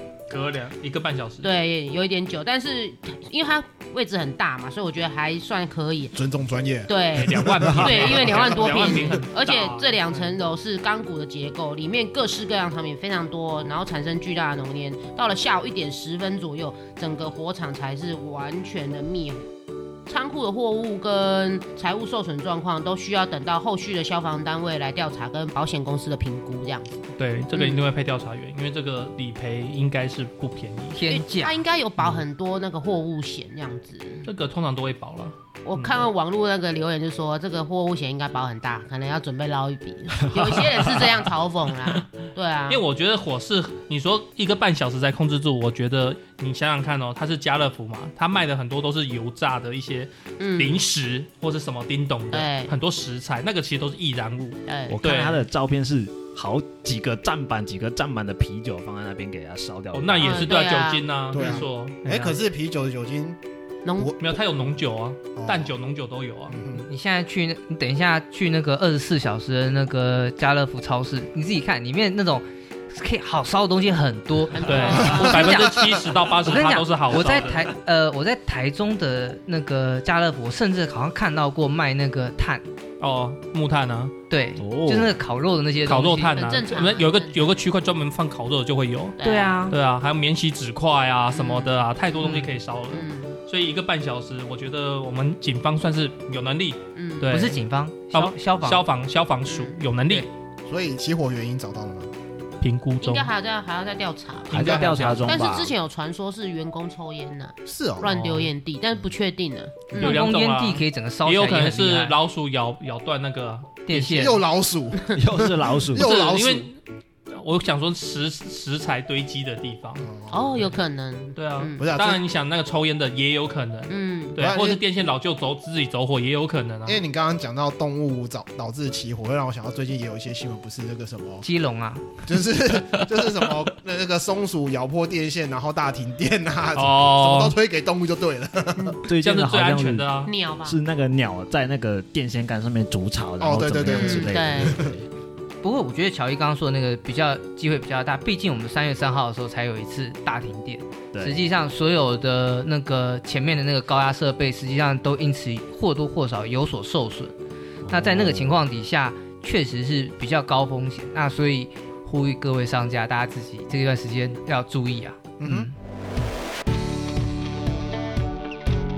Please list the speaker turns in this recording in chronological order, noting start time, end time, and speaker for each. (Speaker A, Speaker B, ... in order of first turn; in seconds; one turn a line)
Speaker A: 0.3-1.5
Speaker B: 1.4-6.1
Speaker C: 6.1-9.1
Speaker B: 6.9-19.4
Speaker A: 7.2-10.3
Speaker B: 20.1-27.0
Speaker A: 27.2-31.0
Speaker B: 27.6-27.9
Speaker D: 30.9-31.6
Speaker B: 31.2-34.3
Speaker A: 34.3-36.1
Speaker B: 35.6-42.8
Speaker A: 41.9-42.2
Speaker A: 42.7-55.5
Speaker B: 50.4-50.8
Speaker B: 52.3-52.7
Speaker B: 54.7-55.0
Speaker E: 54.9-60.6
Speaker A: 59.9-62.4
Speaker B: 60.2-61.6
Speaker C: 61.3-63.4
Speaker B: 63.9-64.1
Speaker A: 64.2-66.6
Speaker C: 65.4-65.7
Speaker C: 66.5-66.9
Speaker D: 66.8-75.7
Speaker B: 74.5-75.7
Speaker A: 74.7-77.7
Speaker C: 75.1-76.0
Speaker D: 76.5-82.6
Speaker A: 83.0-84.1
Speaker D: 84.3-86.4
Speaker E: 84.6-85.1
Speaker A: 85.9-89.2
Speaker B: 86.3-87.5
Speaker B: 89.2-89.7
Speaker D: 89.2-89.8
Speaker A: 89.7-97.6
Speaker B: 91.3-91.8
Speaker D: 92.2-92.5
Speaker B: 92.9-93.4
Speaker B: 97.0-97.3
Speaker D: 97.3-98.8
Speaker A: 98.1-100.3
Speaker B: 99.5-99.8
Speaker C: 100.7-102.1
Speaker A: 102.6-103.3
Speaker B: 103.0-110.2
Speaker A: 104.5-105.4
Speaker E: 104.5-105.7
Speaker C: 107.7-108.2
Speaker A: 108.0-108.5
Speaker D: 109.9-112.2
Speaker A: 109.9-114.4
Speaker D: 113.9-114.4
Speaker C: 114.1-116.7
Speaker E: 115.1-116.1
Speaker A: 116.0-116.8
Speaker A: 117.3-120.1
Speaker C: 120.0-120.7
Speaker B: 120.3-121.8
Speaker A: 121.4-127.0
Speaker C: 121.8-122.2
Speaker B: 123.9-124.4
Speaker C: 124.4-124.8
Speaker C: 126.9-131.4
Speaker D: 131.4-132.1
Speaker C: 132.3-139.0
Speaker A: 136.8-137.6
Speaker E: 139.1-145.0
Speaker A: 139.2-140.3
Speaker B: 140.3-140.8
Speaker C: 143.4-145.0
Speaker B: 143.8-144.8
Speaker D: 145.6-157.3
Speaker E: 151.1-151.4
Speaker E: 157.8-158.6
Speaker D: 157.9-165.7
Speaker C: 165.4-165.7